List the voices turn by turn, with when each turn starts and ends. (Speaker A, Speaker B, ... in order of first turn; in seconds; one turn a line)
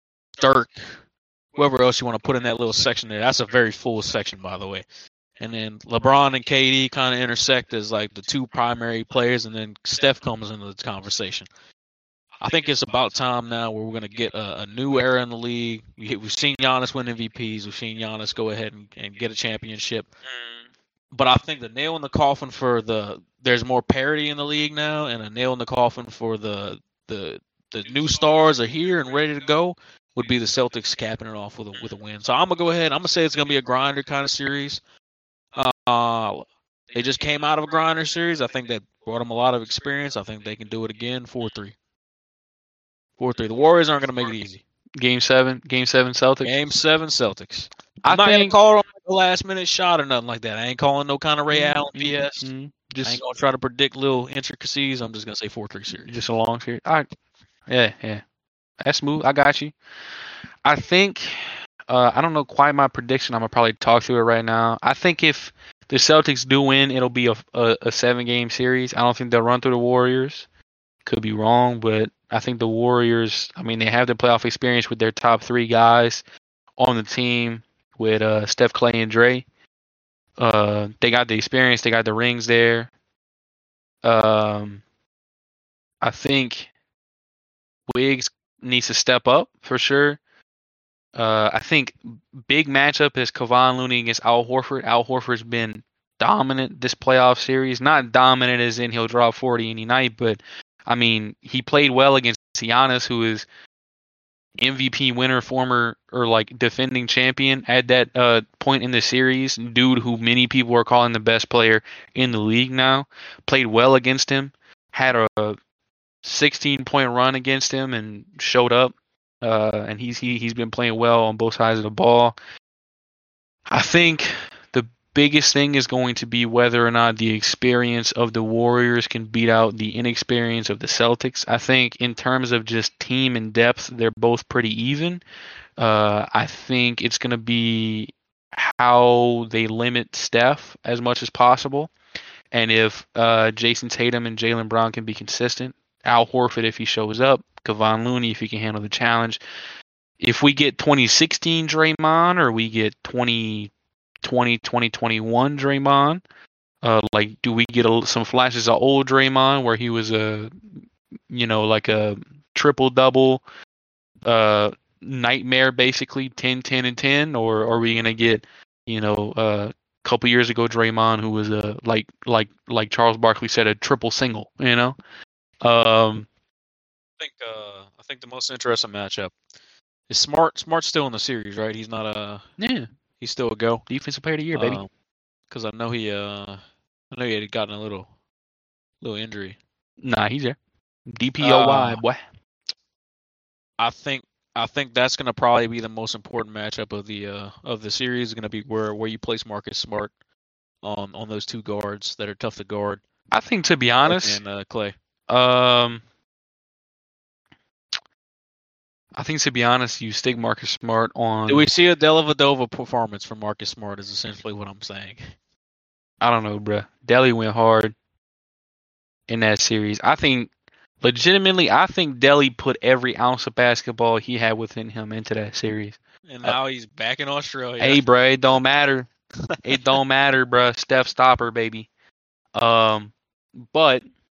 Speaker A: 0.4-1.0
Speaker A: 1.6-4.8
Speaker A: 5.4-11.5
Speaker A: 12.4-20.1
Speaker A: 21.1-34.8
Speaker A: 35.6-41.8
Speaker A: 43.2-44.6
Speaker B: 45.0-46.5
Speaker A: 46.4-52.5
Speaker B: 48.0-48.6
Speaker B: 51.5-53.2
Speaker A: 53.0-56.1
Speaker B: 56.1-57.1
Speaker B: 57.7-58.2
Speaker B: 58.8-59.8
Speaker B: 60.6-70.5
Speaker B: 71.1-76.2
Speaker B: 76.8-79.5
Speaker B: 80.4-82.9
Speaker B: 84.0-84.8
Speaker B: 86.0-86.7
Speaker B: 87.9-90.2
Speaker B: 91.2-103.5
Speaker B: 104.6-115.6
Speaker B: 116.2-122.4
Speaker B: 123.7-135.2
Speaker B: 135.8-141.9
Speaker B: 142.5-149.4
Speaker B: 150.2-156.2
Speaker B: 156.8-160.8
Speaker B: 161.3-163.4
Speaker B: 164.2-175.0
Speaker B: 175.6-176.3
Speaker A: 177.2-179.3
Speaker A: 180.1-182.4
Speaker B: 182.6-182.9
Speaker A: 183.2-183.8
Speaker B: 183.9-184.8
Speaker A: 184.5-184.9
Speaker A: 185.5-186.6
Speaker A: 187.1-188.1
Speaker A: 189.0-189.6
Speaker B: 190.0-190.6
Speaker B: 191.1-192.2
Speaker A: 191.4-192.0
Speaker A: 193.8-200.1
Speaker A: 200.8-203.0
Speaker B: 203.3-204.4
Speaker A: 204.0-204.9
Speaker B: 205.3-206.0
Speaker B: 209.2-211.7
Speaker A: 211.5-215.2
Speaker B: 216.2-217.9
Speaker B: 219.3-220.5
Speaker B: 221.0-226.6
Speaker A: 226.3-228.0
Speaker B: 227.8-229.1
Speaker A: 229.5-230.0
Speaker B: 229.6-231.9
Speaker B: 232.6-234.1